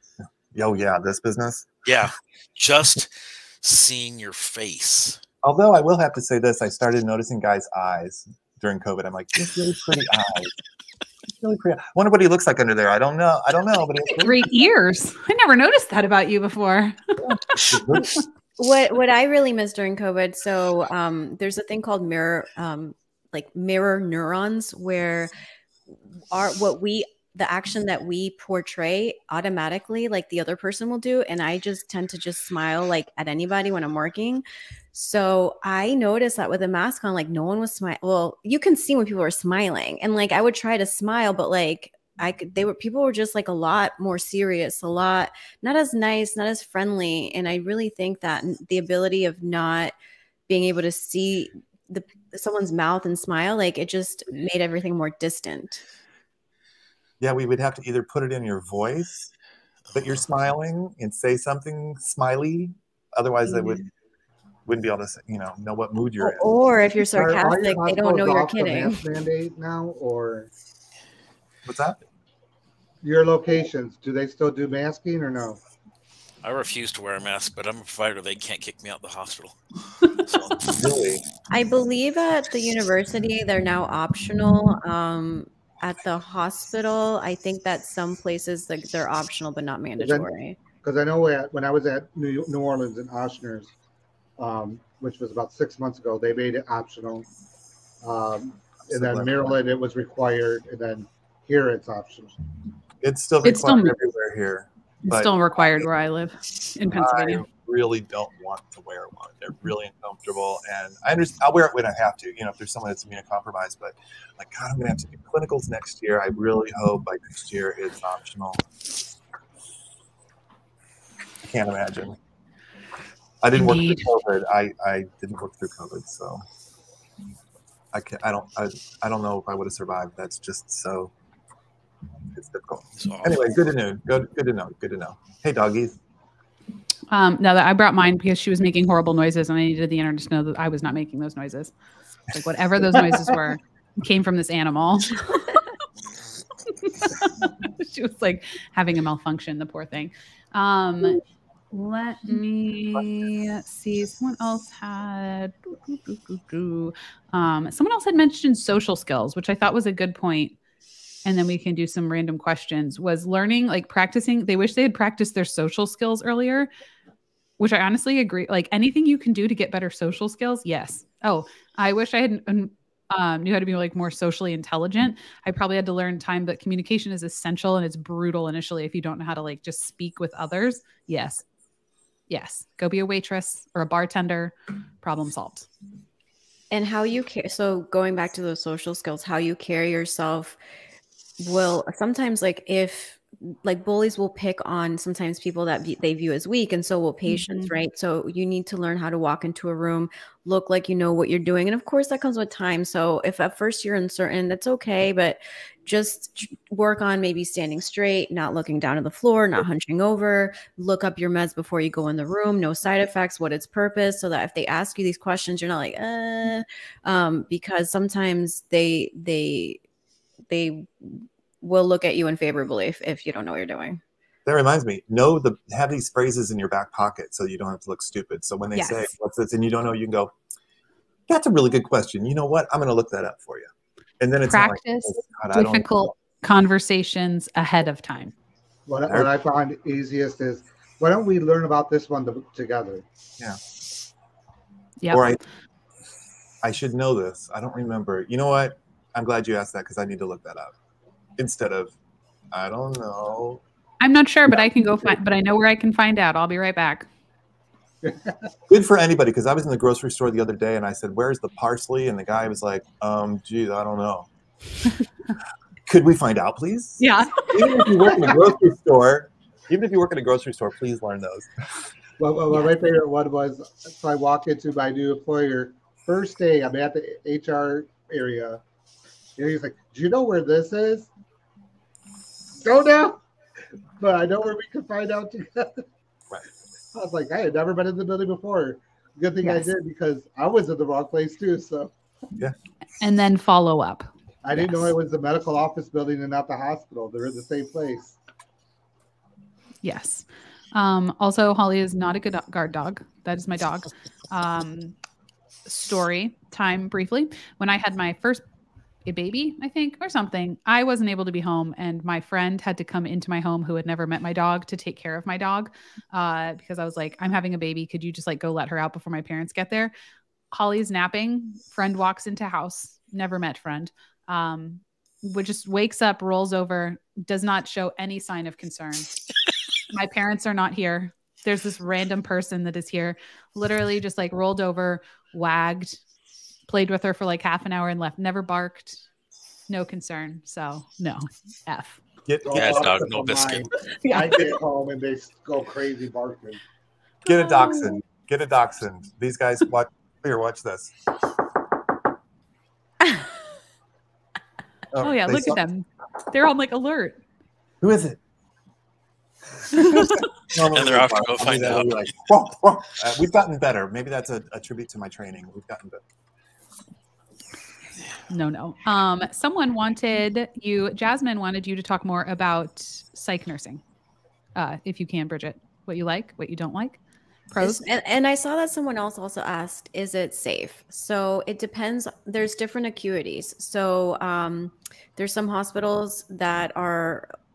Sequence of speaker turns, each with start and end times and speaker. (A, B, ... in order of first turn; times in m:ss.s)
0:00.5-0:01.7 A
0:01.8-0:05.2 B
0:05.4-0:10.5 A
0:11.4-0:14.4 A
0:14.1-0:17.2 C
0:17.2-0:18.1 A
0:18.6-0:25.3 D
0:25.9-0:50.0 D
0:50.5-0:55.8 D
0:57.2-0:59.3 A
0:59.9-1:03.8 A
1:03.5-1:03.8 D
1:04.7-1:06.5 A
1:06.2-1:09.0 D
1:07.1-1:10.5 E
1:11.6-1:12.0 A
1:13.0-1:15.6 E
1:16.4-1:20.8 B
1:20.7-1:21.2 A
1:21.5-1:30.6 D
1:30.0-1:30.3 E
1:30.8-1:33.7 E
1:34.4-1:37.3 E
1:38.0-1:42.4 E
1:38.9-1:39.6 A
1:43.0-1:45.9 A
1:43.4-1:44.0 C
1:45.1-1:47.4 C
1:46.9-1:58.6 A
2:01.4-2:02.2 A
2:03.4-2:06.4 A
2:03.6-2:04.1 C
2:07.9-2:11.1 A
2:12.3-2:16.0 A
2:13.0-2:13.6 B
2:17.1-2:21.7 C
2:22.3-2:25.6 C
2:26.7-2:31.2 C
2:31.7-2:40.6 C
2:41.2-2:46.7 C
2:47.6-3:01.4 C
3:02.3-3:05.7 C
3:06.7-3:10.6 D
3:11.4-3:39.8 D
3:17.2-3:17.7 C
3:40.5-3:44.0 D
3:44.4-3:50.3 A
3:48.7-3:49.1 C
3:51.3-3:56.1 A
3:54.5-3:58.3 C
3:58.9-4:03.0 E
4:05.0-4:05.4 C
4:05.1-4:05.4 A
4:06.6-4:10.7 A
4:11.4-4:11.9 A
4:12.5-4:13.6 A
4:14.0-4:17.1 C
4:14.5-4:15.1 A
4:18.0-4:18.5 E
4:18.7-4:24.3 A
4:25.9-4:31.5 A
4:27.0-4:28.4 C
4:32.2-4:38.6 E
4:39.4-4:41.1 E
4:42.6-4:43.2 E
4:44.0-4:45.8 E
4:46.9-4:51.9 E
4:49.4-4:49.7 C
4:53.0-4:54.9 C
4:54.4-4:58.2 E
4:59.8-5:05.0 C
5:05.7-5:08.4 C
5:09.0-5:19.9 C
5:20.5-5:29.1 C
5:29.9-5:36.0 C
5:36.7-5:39.0 C
5:39.7-5:42.0 C
5:42.3-5:43.1 A
5:42.4-5:46.6 E
5:42.5-5:43.7 B
5:44.0-5:44.5 C
5:47.2-5:48.0 C
5:47.2-5:50.9 A
5:54.9-5:55.6 A
5:55.0-5:57.2 C
5:57.8-5:58.2 A
5:59.7-6:00.2 C
5:59.7-6:06.0 A
6:00.6-6:02.1 B
6:08.3-6:13.8 C
6:14.6-6:17.0 C
6:17.5-6:17.8 C
6:17.6-6:27.3 D